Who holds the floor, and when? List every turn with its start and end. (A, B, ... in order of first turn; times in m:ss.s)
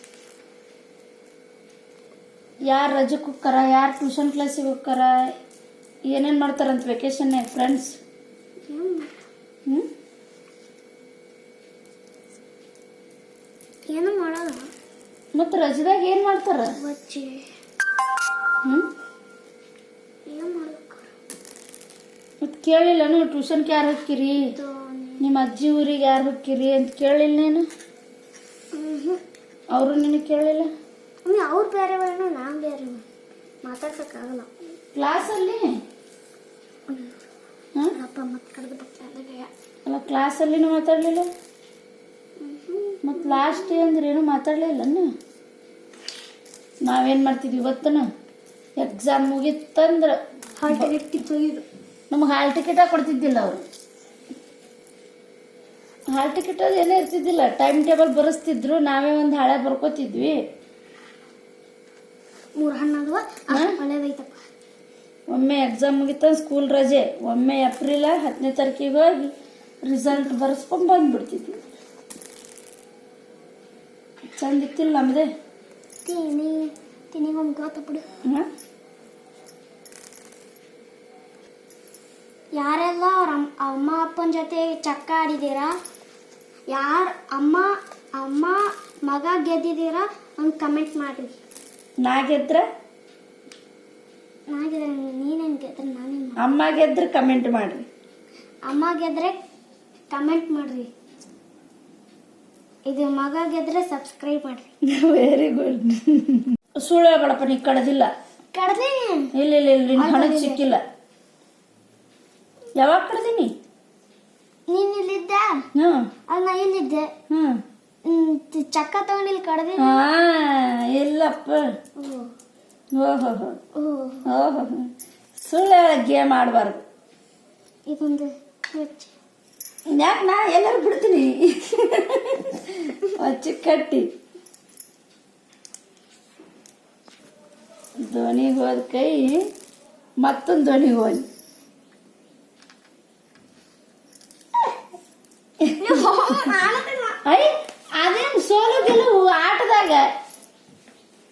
0:02.7-0:05.3 A
0:06.1-0:07.9 A
0:08.7-0:09.2 B
0:13.9-0:14.6 B
0:15.3-0:16.8 A
0:16.8-0:17.5 B
0:18.6-0:18.9 A
0:20.3-0:21.1 B
0:22.4-0:24.5 A
0:24.6-0:25.2 B
0:25.2-0:27.7 A
0:28.7-0:29.2 B
0:29.7-0:30.7 A
0:31.2-0:33.0 B
0:33.6-0:34.5 B
0:34.9-0:35.7 A
0:37.9-0:39.5 B
0:39.8-0:41.3 A
0:42.4-0:43.8 B
0:43.0-0:45.1 A
0:46.8-0:48.1 A
0:48.8-0:50.9 A
0:50.6-0:51.6 B
0:52.1-0:53.6 A
0:56.1-1:00.4 A
1:02.6-1:04.4 B
1:05.3-1:09.3 A
1:09.8-1:11.6 A
1:14.4-1:15.3 A
1:16.0-1:18.0 B
1:22.5-1:25.7 B
1:26.7-1:31.3 B
1:32.0-1:32.6 A
1:34.5-1:36.4 B
1:36.4-1:37.8 A
1:38.6-1:39.4 B
1:40.1-1:40.9 B
1:42.9-1:44.7 B
1:44.8-1:48.1 A
1:48.5-1:49.3 B
1:49.3-1:50.8 A
1:50.0-1:50.6 B
1:52.8-1:53.5 A
1:54.7-1:55.7 B
1:55.7-1:56.1 A
1:56.3-1:57.1 B
1:57.3-1:57.6 A
1:58.0-2:00.0 B
1:59.8-2:01.6 A
2:02.0-2:02.3 B
2:02.9-2:03.6 A
2:03.7-2:04.3 B
2:04.2-2:06.8 A
2:07.9-2:09.2 B
2:09.9-2:14.1 A
2:18.0-2:19.4 A
2:20.2-2:21.2 A
2:25.6-2:26.2 A
2:25.8-2:27.2 B
2:27.2-2:30.1 A